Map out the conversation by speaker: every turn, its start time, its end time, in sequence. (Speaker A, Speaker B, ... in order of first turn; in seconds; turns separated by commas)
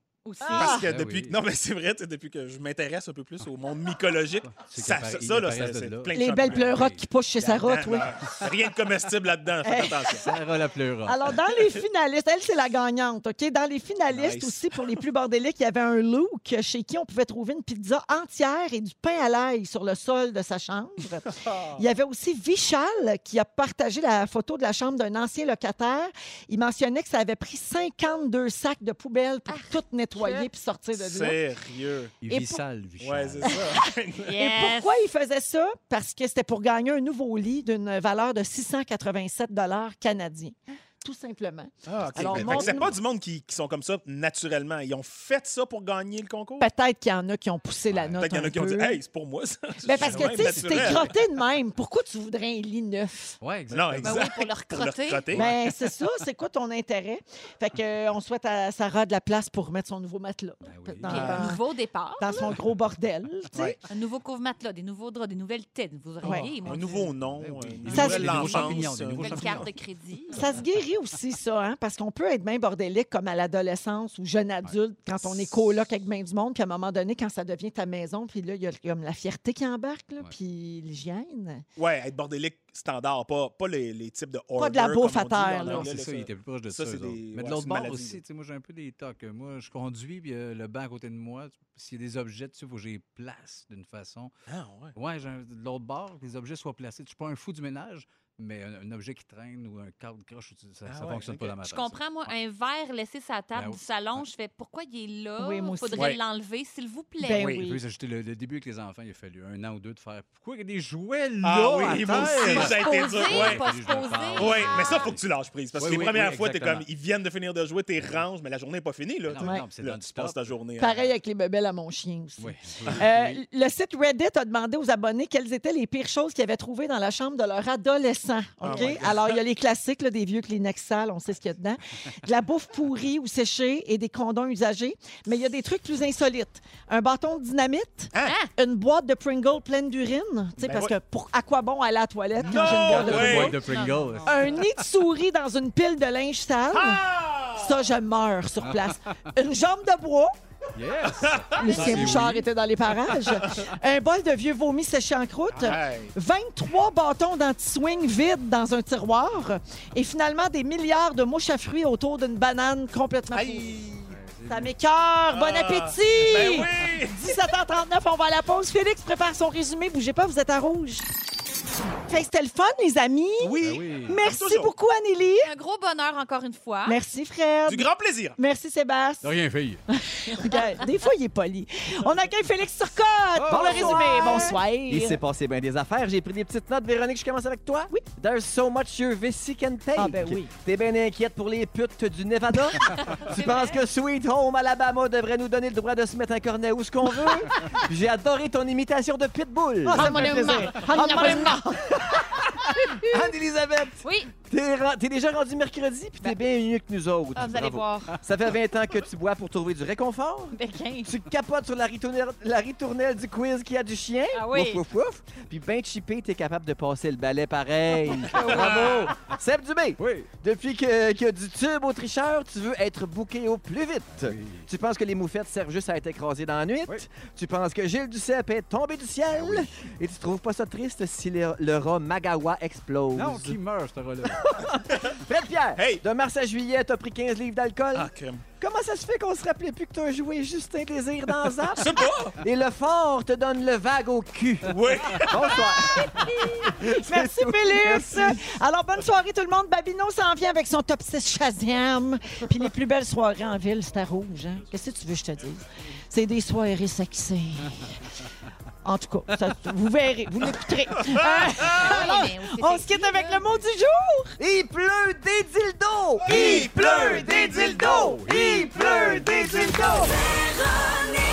Speaker A: 0.2-0.8, Speaker B: 0.4-0.9, Speaker C: 0.5-6.8, Speaker D: 0.7-1.4, Speaker D: 4.4-7.1, Speaker B: 6.1-8.1, Speaker C: 7.4-10.3, Speaker B: 9.6-10.2, Speaker D: 10.2-11.3, Speaker B: 11.1-31.4, Speaker C: 14.1-14.7, Speaker C: 21.2-21.8, Speaker A: 29.5-30.5, Speaker C: 31.0-32.1, Speaker D: 32.2-33.7, Speaker B: 32.3-32.6, Speaker C: 33.0-34.3, Speaker B: 33.4-42.9, Speaker A: 34.2-35.0, Speaker C: 41.9-46.7, Speaker D: 42.2-43.0, Speaker B: 46.6-49.0, Speaker D: 47.9-48.2, Speaker C: 48.2-51.1, Speaker B: 49.8-53.3, Speaker D: 50.0-51.1, Speaker D: 53.4-54.3, Speaker C: 53.7-55.5, Speaker A: 54.0-55.3, Speaker B: 55.3-61.6, Speaker D: 60.6-61.4, Speaker A: 61.1-62.5, Speaker C: 61.1-61.5, Speaker B: 62.2-63.8, Speaker A: 63.9-67.1, Speaker D: 66.3-66.8, Speaker C: 66.4-69.7, Speaker D: 67.4-69.7, Speaker B: 67.9-68.6, Speaker A: 68.4-70.6, Speaker B: 70.3-81.7, Speaker C: 75.2-75.6, Speaker C: 81.8-88.2, Speaker B: 84.6-85.9, Speaker D: 85.6-94.3, Speaker C: 94.5-94.9, Speaker D: 95.0-102.0, Speaker C: 100.9-101.6, Speaker A: 101.6-107.4, Speaker D: 103.5-104.2, Speaker B: 105.4-106.2, Speaker B: 107.2-107.8, Speaker C: 107.3-107.7, Speaker D: 107.7-115.2, Speaker C: 111.4-113.6, Speaker A: 112.4-115.1, Speaker C: 114.4-121.1, Speaker D: 115.8-116.9, Speaker D: 119.3-120.6, Speaker B: 119.4-119.6, Speaker B: 120.8-143.6, Speaker D: 122.4-123.4, Speaker C: 128.6-129.4, Speaker D: 128.7-129.1, Speaker A: 138.2-138.5, Speaker C: 140.6-140.9, Speaker C: 142.4-143.6, Speaker D: 142.5-144.7, Speaker A: 143.6-144.5, Speaker B: 144.2-147.0, Speaker C: 146.7-147.8, Speaker B: 147.6-150.3, Speaker D: 148.6-149.2, Speaker D: 150.8-152.5, Speaker C: 151.4-152.3, Speaker B: 151.6-163.9, Speaker C: 155.5-156.1, Speaker C: 163.3-164.1, Speaker D: 164.1-164.7, Speaker B: 164.5-171.1, Speaker C: 165.3-167.2, Speaker B: 172.1-175.5, Speaker C: 173.4-174.7, Speaker D: 173.6-174.2, Speaker A: 175.4-177.0, Speaker B: 176.9-179.3, Speaker C: 177.7-178.4, Speaker D: 179.2-179.8, Speaker B: 179.9-185.2, Speaker E: 183.4-233.6, Speaker A: 183.5-184.6, Speaker B: 190.0-190.5, Speaker A: 193.0-193.8, Speaker B: 199.9-202.1, Speaker A: 199.9-201.6, Speaker A: 204.0-204.3, Speaker A: 207.3-208.1, Speaker A: 210.5-211.1, Speaker A: 214.3-214.8, Speaker A: 218.3-219.1, Speaker C: 218.4-219.1, Speaker D: 220.0-220.3, Speaker D: 224.1-224.7, Speaker D: 229.4-229.7, Speaker D: 233.2-234.7, Speaker C: 234.5-235.2, Speaker E: 235.2-241.9, Speaker C: 235.8-236.1, Speaker C: 237.9-238.5, Speaker C: 241.8-242.4, Speaker E: 242.4-244.7, Speaker C: 244.6-246.8, Speaker E: 245.2-246.1, Speaker E: 246.7-248.4, Speaker B: 246.8-258.1, Speaker B: 258.8-264.4, Speaker C: 261.1-261.9, Speaker A: 261.7-263.5, Speaker E: 264.4-270.2, Speaker C: 266.3-267.8, Speaker B: 266.3-266.7, Speaker D: 268.1-268.8